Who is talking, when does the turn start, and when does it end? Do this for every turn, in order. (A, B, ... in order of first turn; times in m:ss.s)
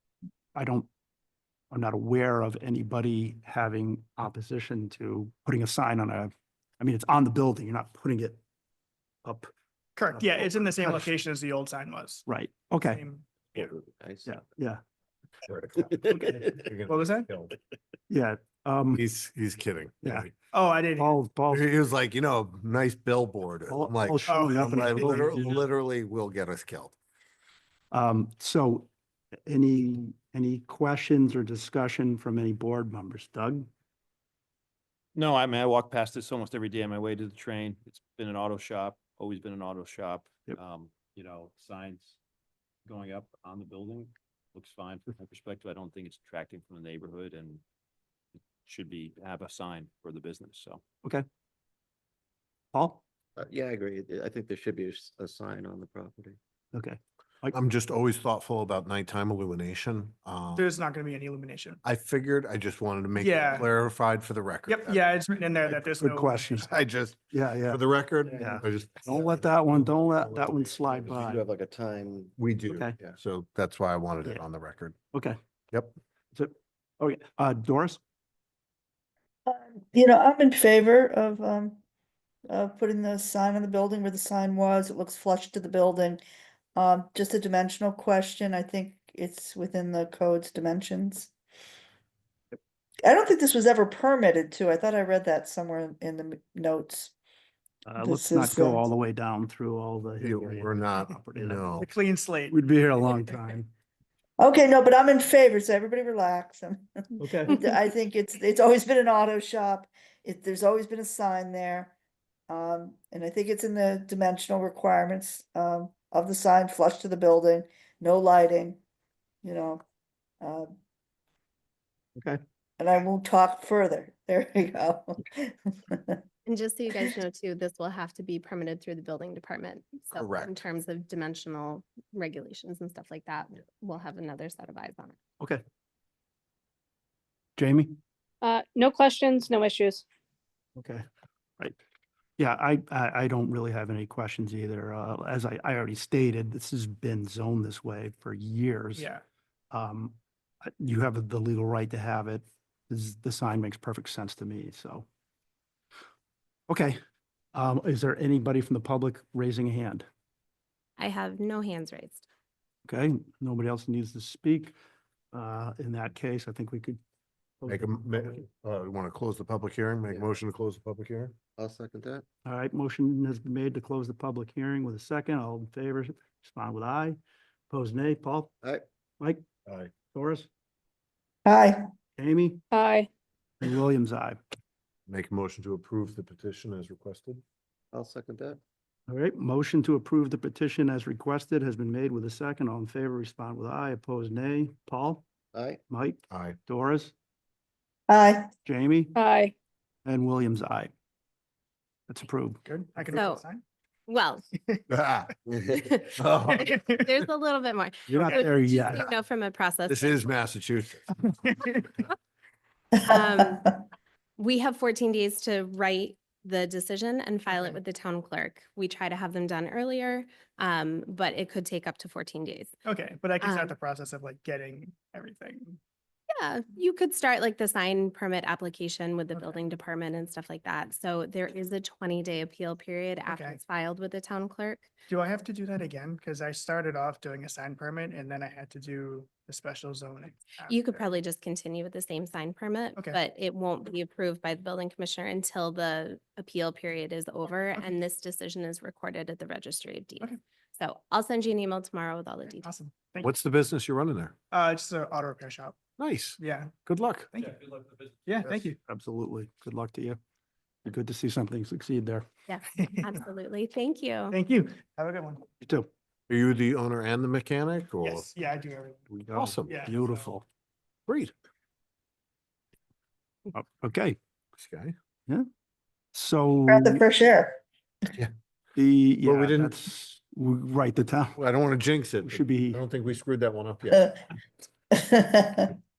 0:00.5-0:00.9 A
0:01.7-0:08.4 A
0:09.2-0:09.5 A
0:10.0-0:12.2 B
0:10.1-0:11.1 A
0:12.3-0:13.0 A
0:12.9-0:13.2 B
0:13.6-0:14.3 C
0:14.2-0:14.8 A
0:15.5-0:16.0 D
0:15.8-0:16.6 C
0:16.1-0:16.5 A
0:16.6-0:17.5 D
0:16.9-0:17.2 B
0:18.1-0:19.0 A
0:19.0-0:20.4 D
0:20.5-0:21.1 B
0:21.0-0:21.6 A
0:21.5-0:26.9 D
0:23.7-0:25.6 A
0:24.3-0:24.8 B
0:27.9-0:28.9 A
0:29.5-0:33.7 A
0:35.1-0:42.2 E
0:42.9-0:47.6 E
0:48.3-0:50.8 E
0:52.7-0:53.0 A
0:53.4-0:56.4 C
0:56.7-0:57.6 A
0:57.5-1:00.7 D
1:00.6-1:01.8 B
1:01.8-1:05.1 D
1:03.2-1:03.6 B
1:04.7-1:06.8 B
1:05.8-1:06.7 A
1:06.6-1:11.4 D
1:07.3-1:07.8 A
1:08.3-1:08.6 C
1:08.3-1:11.4 A
1:11.0-1:12.4 C
1:12.4-1:15.0 D
1:12.7-1:12.9 A
1:15.1-1:15.4 A
1:15.7-1:16.0 D
1:16.3-1:18.0 A
1:19.4-1:21.8 F
1:22.5-1:26.2 F
1:26.7-1:31.3 F
1:33.0-1:37.1 F
1:37.8-1:41.8 A
1:38.0-1:38.8 F
1:40.2-1:41.9 D
1:41.8-1:42.5 B
1:42.5-1:43.7 A
1:44.4-1:51.9 F
1:47.2-1:47.6 A
1:52.5-1:58.8 F
1:59.4-1:59.8 F
2:00.4-2:00.7 F
2:02.8-2:06.2 F
2:06.4-2:15.2 G
2:10.2-2:10.5 D
2:17.6-2:18.0 A
2:18.4-2:20.0 H
2:20.8-2:21.0 A
2:22.4-2:29.1 A
2:29.7-2:35.1 A
2:36.7-2:37.0 A
2:37.5-2:40.1 A
2:41.0-2:42.2 G
2:42.8-2:44.8 A
2:45.3-2:47.0 A
2:47.6-2:48.4 A
2:47.7-2:51.4 D
2:50.1-2:50.3 C
2:51.6-2:52.2 C
2:52.4-2:57.2 A
2:57.7-2:58.5 A
2:59.7-2:59.9 D
3:00.0-3:00.5 A
3:01.4-3:01.8 F
3:02.2-3:02.6 A
3:02.7-3:03.1 H
3:03.6-3:04.4 A
3:05.1-3:07.4 D
3:07.9-3:08.6 C
3:09.1-3:15.2 A
3:15.5-3:15.8 C
3:15.9-3:17.1 A
3:16.3-3:16.6 D
3:18.1-3:18.5 F
3:18.7-3:19.2 A
3:19.2-3:19.5 H
3:20.0-3:20.9 A
3:22.1-3:22.6 A
3:22.7-3:23.6 B
3:23.1-3:23.4 G
3:24.1-3:24.4 G
3:24.9-3:25.3 D
3:25.4-3:25.8 C
3:25.7-3:30.3 G
3:26.2-3:26.8 D
3:26.5-3:27.0 B
3:28.2-3:29.1 A
3:29.9-3:31.1 D
3:31.4-3:31.8 B
3:32.9-3:33.8 F
3:33.1-3:33.7 G
3:34.4-3:42.8 G
3:42.9-3:45.7 B
3:43.4-3:43.8 G
3:46.4-3:54.9 G
3:53.3-3:53.6 B
3:55.1-4:00.7 B
4:00.7-4:12.7 G
4:12.7-4:13.3 B
4:13.2-4:14.3 D
4:14.5-4:15.8 B
4:16.0-4:17.3 D
4:16.4-4:16.7 B
4:17.4-4:18.7 E
4:18.4-4:18.8 B
4:18.8-4:20.2 A
4:20.9-4:22.2 A
4:22.5-4:24.4 G
4:24.3-4:25.4 B
4:25.6-4:25.9 A
4:26.3-4:28.3 D
4:28.0-4:29.0 B
4:29.2-4:29.9 D
4:29.2-4:30.4 A
4:29.7-4:30.3 B
4:31.1-4:31.3 D
4:33.5-4:34.2 A
4:34.6-4:34.9 D
4:36.1-4:37.0 A
4:36.7-4:37.6 F
4:38.8-4:41.4 A
4:39.2-4:39.8 D
4:41.4-4:44.0 D
4:42.2-4:42.8 A
4:43.9-4:44.2 F
4:44.9-4:45.8 F